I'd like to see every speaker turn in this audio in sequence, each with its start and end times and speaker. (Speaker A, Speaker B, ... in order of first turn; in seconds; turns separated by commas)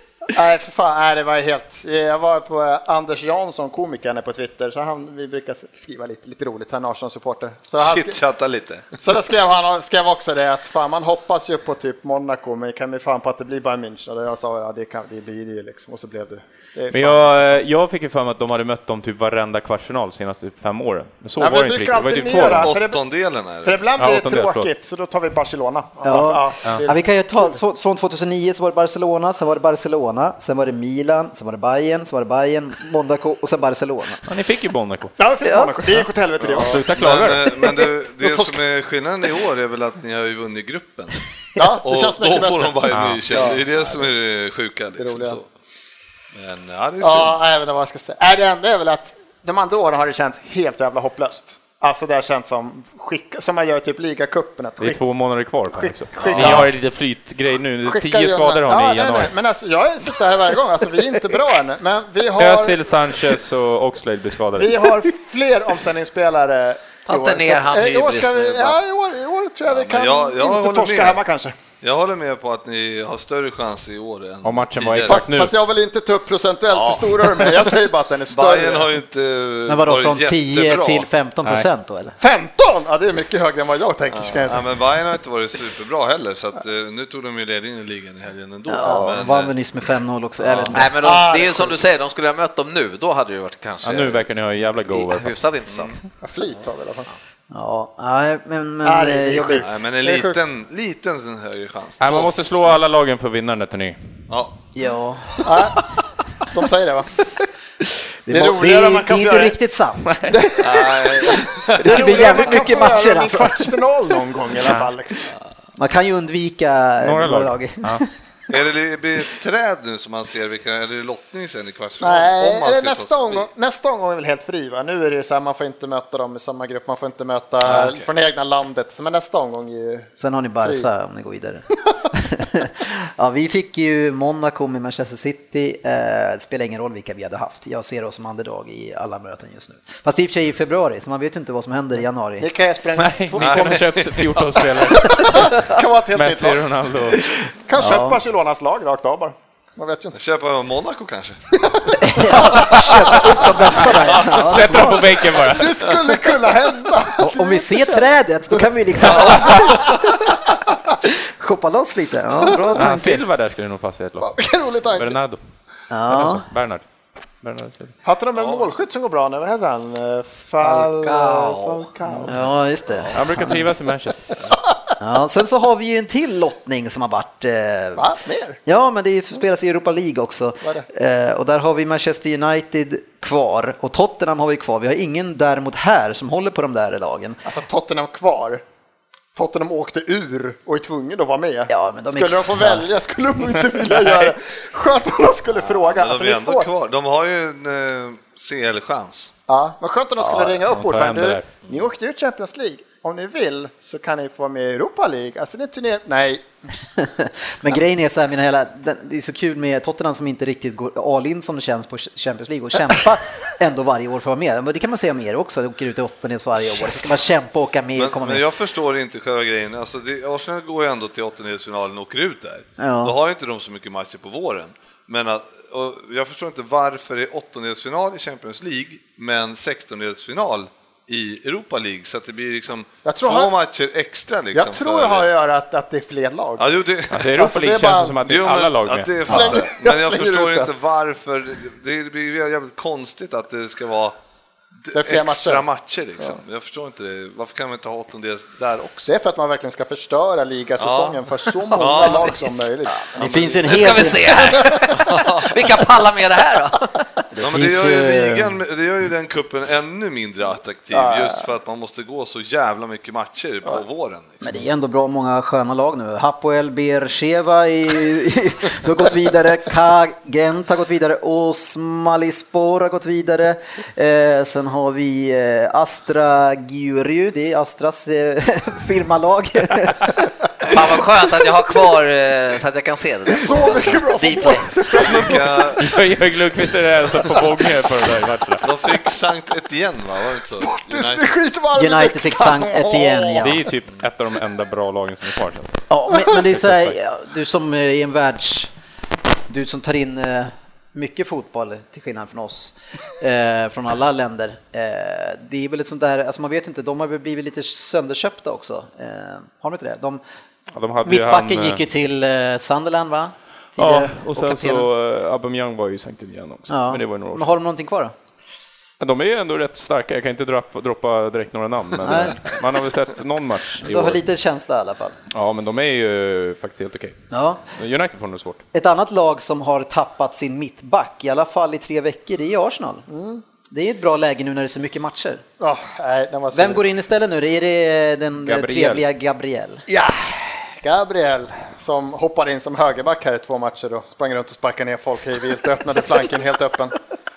Speaker A: 0.3-8.2, Speaker B: 7.8-9.0, Speaker A: 9.0-17.6, Speaker C: 16.9-22.8, Speaker A: 21.4-23.1, Speaker B: 22.5-23.8, Speaker A: 23.6-27.6, Speaker C: 24.0-24.7, Speaker D: 26.0-34.2, Speaker C: 34.3-35.1, Speaker A: 35.2-36.9, Speaker D: 35.4-35.9, Speaker B: 36.4-45.5, Speaker C: 36.5-37.8, Speaker D: 38.2-38.5, Speaker A: 41.6-42.8, Speaker C: 42.9-43.2, Speaker A: 43.3-44.0, Speaker A: 45.0-45.4, Speaker B: 46.4-47.4, Speaker A: 47.0-55.0, Speaker C: 54.8-59.3, Speaker A: 55.7-56.7, Speaker B: 56.2-56.7, Speaker A: 57.8-62.8, Speaker C: 62.4-64.9, Speaker A: 64.6-71.5, Speaker E: 67.1-68.8, Speaker B: 69.7-71.2, Speaker B: 71.8-75.2, Speaker C: 74.4-75.6, Speaker A: 75.0-78.9, Speaker B: 76.7-77.3, Speaker B: 78.3-81.1, Speaker D: 79.7-82.1, Speaker C: 81.4-81.7, Speaker A: 82.2-84.6, Speaker B: 84.1-89.5, Speaker D: 88.7-90.9, Speaker B: 90.4-90.8, Speaker E: 90.7-94.3, Speaker A: 91.0-91.8, Speaker C: 93.8-95.3, Speaker E: 94.9-96.0, Speaker B: 95.7-96.0, Speaker A: 96.2-97.1, Speaker D: 97.5-99.7, Speaker A: 98.8-100.4, Speaker B: 99.6-102.6, Speaker C: 102.0-104.0, Speaker B: 104.3-104.6, Speaker D: 104.8-105.7, Speaker A: 105.4-105.9, Speaker A: 106.5-107.1, Speaker D: 107.8-110.5, Speaker A: 108.3-109.6, Speaker C: 110.1-110.3, Speaker A: 110.3-115.3, Speaker B: 110.6-112.7, Speaker D: 111.3-113.7, Speaker C: 114.6-114.9, Speaker D: 115.8-118.1, Speaker C: 117.0-118.0, Speaker B: 118.5-123.5, Speaker A: 122.0-130.9, Speaker B: 127.6-128.1, Speaker D: 130.2-142.5, Speaker A: 142.4-143.9, Speaker C: 143.0-147.2, Speaker B: 143.4-144.2, Speaker A: 144.6-146.7, Speaker D: 147.2-148.2, Speaker A: 147.7-150.2, Speaker B: 150.1-151.6, Speaker A: 151.7-154.1, Speaker D: 152.0-155.2, Speaker C: 154.2-155.8, Speaker A: 155.3-158.1, Speaker D: 157.2-160.3, Speaker B: 159.1-160.0, Speaker A: 159.1-159.9, Speaker D: 161.0-163.2, Speaker A: 162.4-162.9, Speaker C: 162.7-164.3, Speaker A: 164.2-165.2, Speaker C: 164.9-165.4, Speaker D: 165.9-166.4, Speaker C: 166.1-166.8, Speaker C: 167.4-167.9, Speaker A: 168.1-172.4, Speaker E: 170.6-171.9, Speaker D: 172.3-173.6, Speaker C: 173.1-174.2, Speaker D: 175.0-178.1, Speaker A: 178.0-178.6, Speaker D: 178.7-187.4, Speaker A: 187.4-188.6, Speaker A: 189.3-196.7, Speaker D: 191.7-192.9, Speaker B: 195.6-199.3, Speaker A: 199.5-206.4, Speaker C: 200.2-201.5, Speaker D: 207.0-218.4, Speaker B: 217.9-235.3, Speaker D: 222.8-223.1, Speaker A: 233.1-233.5, Speaker A: 234.5-236.7, Speaker B: 236.6-237.3, Speaker C: 237.1-239.6, Speaker A: 237.3-238.2, Speaker B: 238.2-244.2, Speaker A: 239.3-240.7, Speaker B: 244.8-249.1, Speaker A: 244.9-245.7, Speaker A: 249.1-255.1, Speaker B: 250.8-252.4, Speaker D: 253.1-254.5, Speaker E: 253.6-257.0, Speaker B: 255.0-255.7, Speaker D: 257.3-258.6, Speaker B: 257.4-264.6, Speaker A: 260.9-261.4, Speaker D: 264.4-280.1, Speaker E: 280.6-284.7, Speaker A: 283.3-285.7, Speaker B: 284.9-285.9, Speaker C: 285.8-288.7, Speaker B: 288.6-291.2, Speaker A: 290.5-293.5, Speaker D: 291.8-293.6, Speaker C: 293.4-295.8, Speaker D: 295.9-298.7, Speaker C: 296.4-296.9, Speaker D: 299.5-310.2, Speaker C: 310.8-311.8, Speaker D: 311.1-314.9, Speaker C: 313.8-317.5, Speaker D: 316.7-318.1, Speaker C: 319.0-324.2, Speaker D: 322.0-322.4, Speaker D: 323.8-325.2, Speaker C: 325.3-327.2, Speaker D: 327.3-327.6, Speaker C: 327.8-328.6, Speaker D: 328.7-333.0, Speaker A: 333.1-333.4, Speaker D: 333.7-335.4, Speaker A: 335.6-336.8, Speaker D: 336.5-339.8, Speaker C: 338.4-339.1, Speaker A: 339.9-347.0